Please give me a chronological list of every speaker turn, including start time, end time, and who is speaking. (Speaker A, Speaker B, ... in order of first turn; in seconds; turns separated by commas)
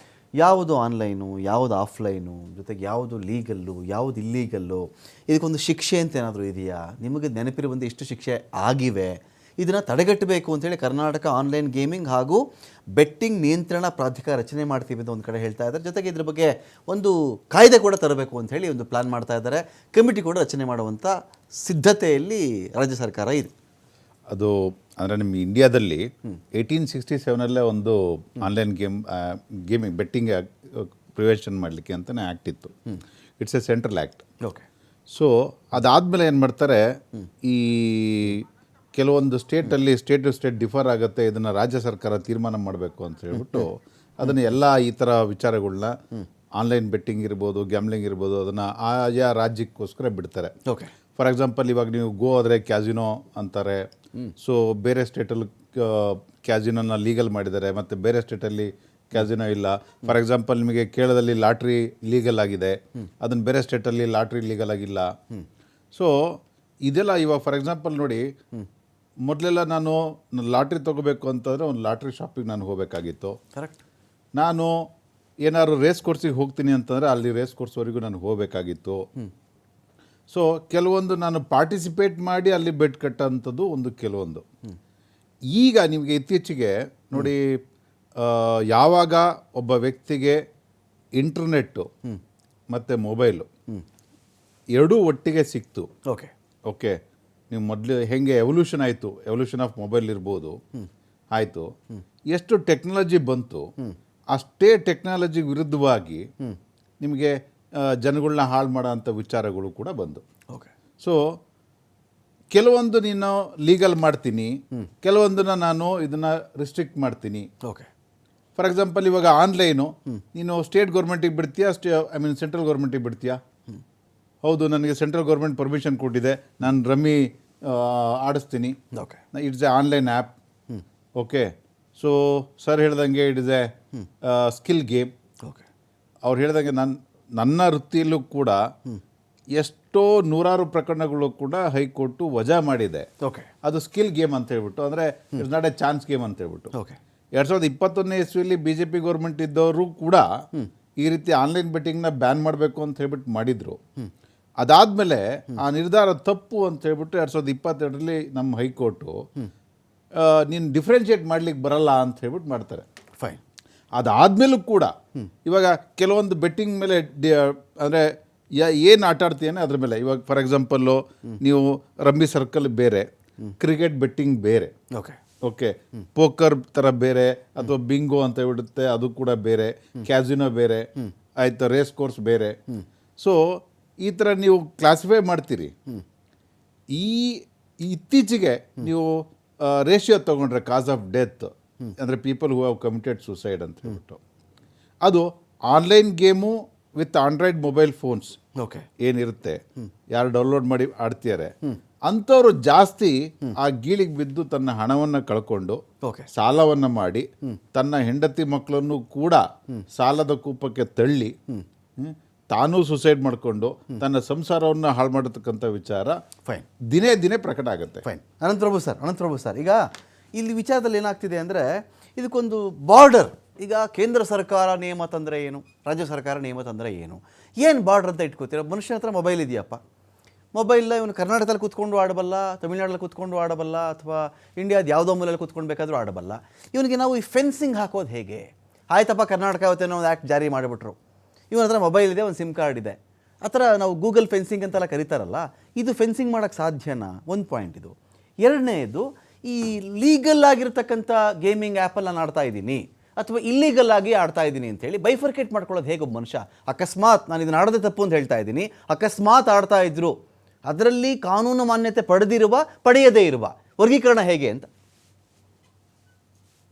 Speaker A: 0.4-12.4, Speaker A: 12.9-23.5, Speaker B: 24.3-32.7, Speaker B: 33.4-34.2, Speaker B: 35.1-36.8, Speaker B: 37.4-45.9, Speaker A: 43.3-43.7, Speaker B: 46.6-50.5, Speaker B: 51.2-53.9, Speaker B: 54.4-65.1, Speaker B: 65.9-68.2, Speaker B: 69.2-73.3, Speaker A: 73.5-73.8, Speaker B: 74.4-74.7, Speaker B: 75.4-79.0, Speaker B: 80.3-84.4, Speaker B: 85.5-87.5, Speaker B: 88.2-90.4, Speaker B: 91.2-91.9, Speaker B: 92.7-93.5, Speaker B: 94.7-95.9, Speaker A: 96.1-96.3, Speaker B: 96.7-97.0, Speaker B: 97.5-100.5, Speaker B: 101.3-101.7, Speaker B: 102.3-103.6, Speaker B: 104.3-106.2, Speaker B: 107.0-110.2, Speaker B: 112.5-117.4, Speaker A: 117.6-117.9, Speaker B: 118.6-123.4, Speaker B: 124.4-128.8, Speaker A: 128.9-129.2, Speaker B: 129.3-130.3, Speaker B: 131.2-133.7, Speaker B: 134.2-135.1, Speaker B: 136.2-138.6, Speaker B: 139.6-143.1, Speaker A: 143.2-143.5, Speaker B: 143.6-146.7, Speaker A: 146.7-147.0, Speaker B: 147.3-150.2, Speaker B: 151.0-153.8, Speaker B: 154.6-159.1, Speaker B: 160.2-162.8, Speaker B: 163.9-164.9, Speaker B: 165.4-168.1, Speaker B: 168.6-173.1, Speaker B: 173.6-174.7, Speaker A: 174.9-175.2, Speaker B: 175.4-180.9, Speaker B: 181.4-182.6, Speaker B: 183.2-185.7, Speaker B: 186.9-194.2, Speaker B: 195.0-198.4, Speaker A: 198.6-198.9, Speaker B: 199.0-199.6, Speaker B: 200.1-201.5, Speaker B: 202.1-205.8, Speaker A: 206.0-206.3, Speaker B: 206.3-209.4, Speaker B: 209.9-211.3, Speaker B: 212.0-216.2, Speaker B: 216.9-218.0, Speaker A: 218.0-219.8, Speaker A: 220.3-229.8, Speaker A: 230.5-241.0, Speaker A: 241.5-260.1, Speaker A: 260.7-264.7